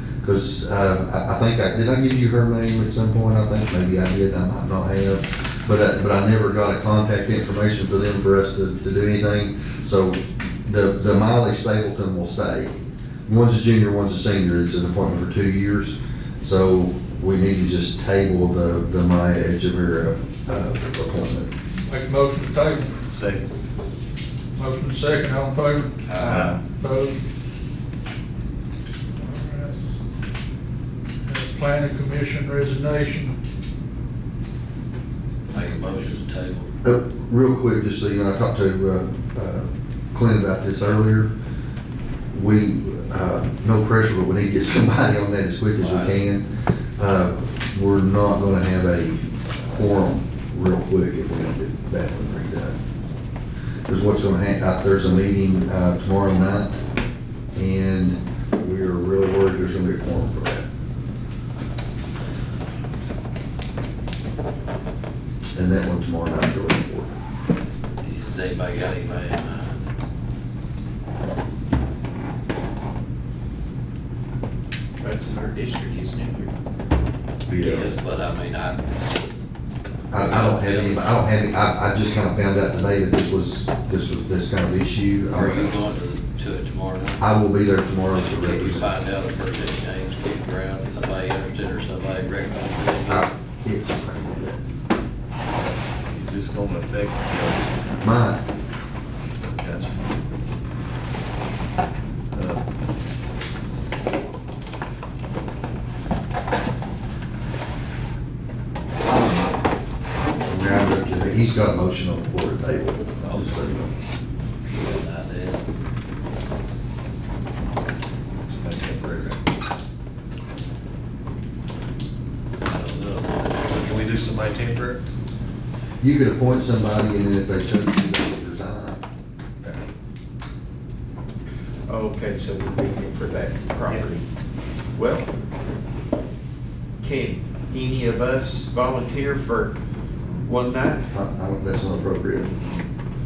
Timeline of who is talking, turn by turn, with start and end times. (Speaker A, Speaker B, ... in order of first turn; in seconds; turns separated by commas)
Speaker A: 0.2-12.7, Speaker A: 13.3-21.5, Speaker B: 21.9-22.9, Speaker C: 23.1-23.5, Speaker B: 24.6-26.0, Speaker D: 26.1-26.5, Speaker C: 26.2-26.6, Speaker B: 26.8-27.2, Speaker B: 29.2-29.9, Speaker B: 31.2-33.3, Speaker D: 35.5-36.7, Speaker A: 36.8-41.3, Speaker A: 42.3-46.4, Speaker D: 45.8-46.2, Speaker A: 47.0-52.8, Speaker A: 53.9-56.8, Speaker A: 57.5-60.7, Speaker A: 65.5-67.1, Speaker D: 68.0-69.8, Speaker E: 75.0-76.5, Speaker A: 77.5-77.9, Speaker D: 77.5-78.8, Speaker A: 80.1-85.8, Speaker D: 80.1-81.1, Speaker D: 85.3-87.2, Speaker A: 87.2-88.9, Speaker D: 88.3-93.3, Speaker A: 93.1-94.6, Speaker C: 95.5-97.7, Speaker A: 98.0-98.4, Speaker C: 99.4-100.0, Speaker C: 102.3-102.7, Speaker A: 110.4-113.9, Speaker C: 113.2-113.5, Speaker D: 114.7-115.6, Speaker C: 118.5-119.4, Speaker D: 122.6-124.0, Speaker C: 123.7-125.0, Speaker A: 126.0-129.0, Speaker E: 131.9-134.2, Speaker E: 134.9-135.3, Speaker E: 137.0-139.8, Speaker E: 140.4-141.1, Speaker A: 141.1-142.5